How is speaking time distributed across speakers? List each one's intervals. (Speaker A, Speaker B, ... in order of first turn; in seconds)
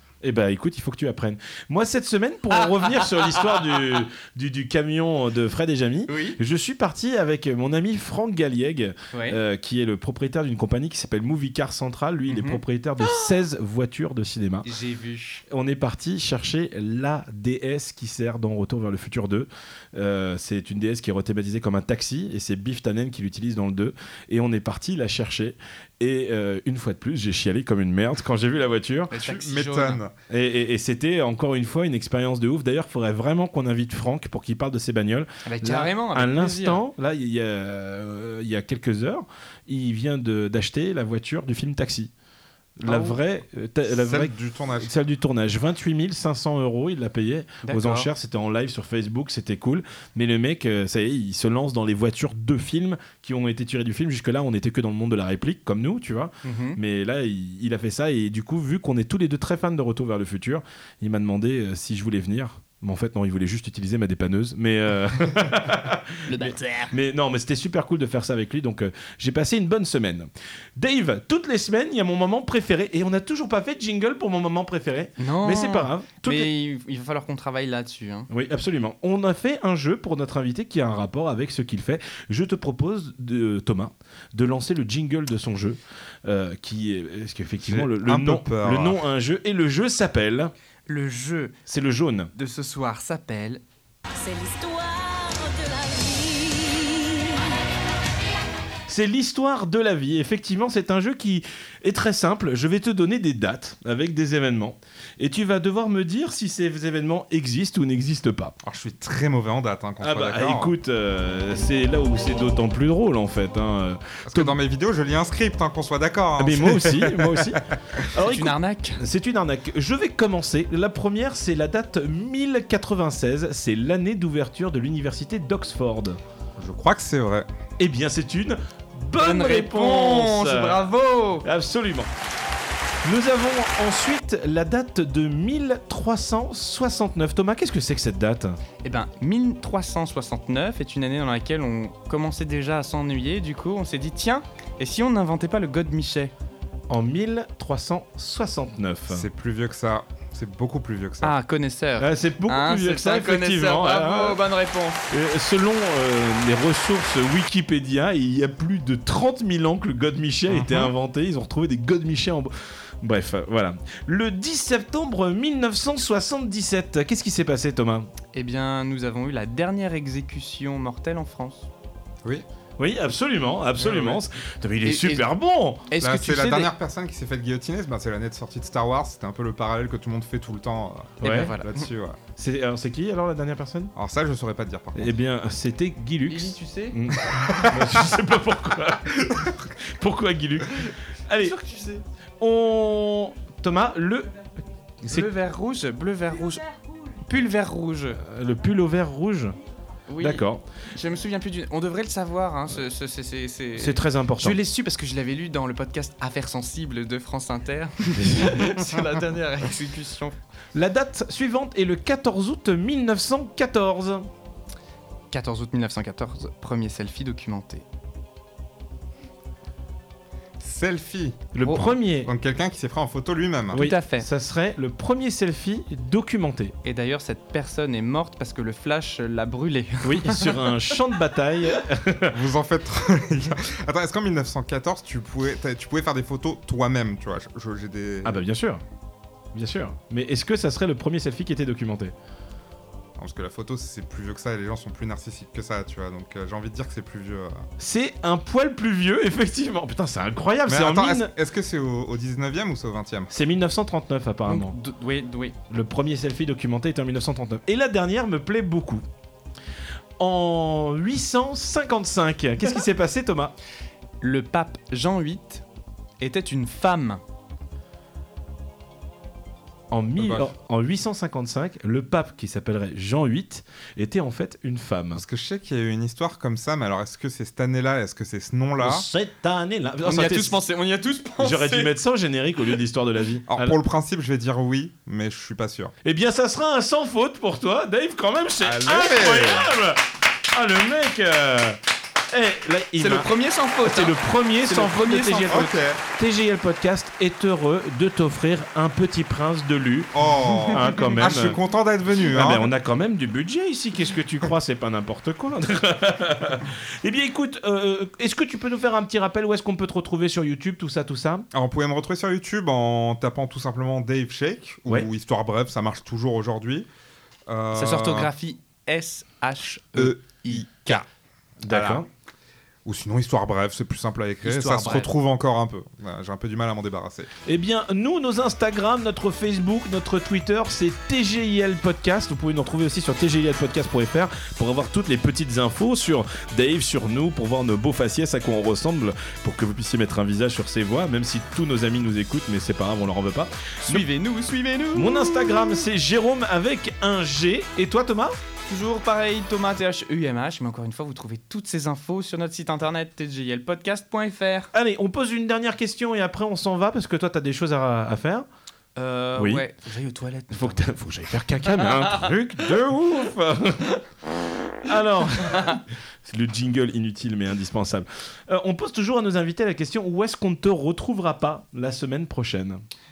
Speaker A: 0.2-14.7, 15.5-29.2, 30.3-42.1, 42.8-76.5, 78.3-90.5, 91.7-92.3, 98.9-108.5, 110.0-114.6, 116.4-126.2, 127.8-130.8, 131.4-132.1, 133.0-138.6, 146.9-149.2, 152.0-154.4, 155.1-168.1, 172.8-175.9, 181.2-181.5, 182.4-183.9, 184.9-191.6, 192.4-194.3, 198.2-199.5, 200.2-200.6, 203.8-204.6, 208.2-208.7, 210.7-214.3, 221.5-222.3, 223.7-226.7, 230.0-232.4, 238.2-238.8, 239.5-242.1, 247.8-251.3, 253.3-254.7, 255.7-259.0, 260.2-263.5, 269.9-275.2, 278.8-280.6, 281.4-283.8, 286.0-291.8, 292.3-293.3, 293.8-301.6, 302.3-311.5, 321.6-322.1, 327.4-344.0, 344.9-348.4, 354.7-358.5, 359.4-359.6, 360.5-364.0, 364.8-372.8
Speaker B: 2.6-4.0, 6.1-6.4, 9.1-9.4, 12.3-13.3, 14.6-15.4, 29.1-30.0, 35.5-36.8, 42.8-43.2, 47.6-48.1, 56.4-56.8, 66.3-66.9, 75.2-78.3, 90.9-91.5, 92.3-93.6, 118.2-119.0, 129.2-131.4, 138.8-146.3, 151.2-155.0, 168.3-171.7, 173.8-174.2, 174.8-175.3, 175.9-176.7, 181.2-181.8, 186.3-187.0, 191.4-192.0, 195.1-198.2, 200.1-200.4, 200.9-210.4, 215.3-217.8, 221.6-221.9, 223.8-224.3, 226.8-231.0, 254.5-255.6, 264.2-265.6, 266.2-267.2, 280.0-282.0, 293.0-295.6, 317.7-321.0, 324.4-325.1, 343.9-345.3, 348.7-354.7, 358.9-360.9, 361.6-362.3
Speaker C: 29.2-30.1, 43.9-44.9, 87.6-89.0, 108.6-110.7, 114.2-118.0, 126.6-127.5, 149.1-151.3, 160.5-160.9, 176.0-182.2, 183.9-185.2, 187.3-188.0, 189.2-189.6, 220.6-221.6, 222.1-223.9, 232.3-238.4, 243.2-247.7, 250.7-253.3, 270.2-270.5, 275.1-279.0, 283.5-285.9, 288.6-289.7, 295.5-296.0, 300.1-302.7, 311.5-316.9, 317.5-318.3, 319.9-321.0, 321.7-322.0, 322.8-327.3
Speaker D: 94.2-97.5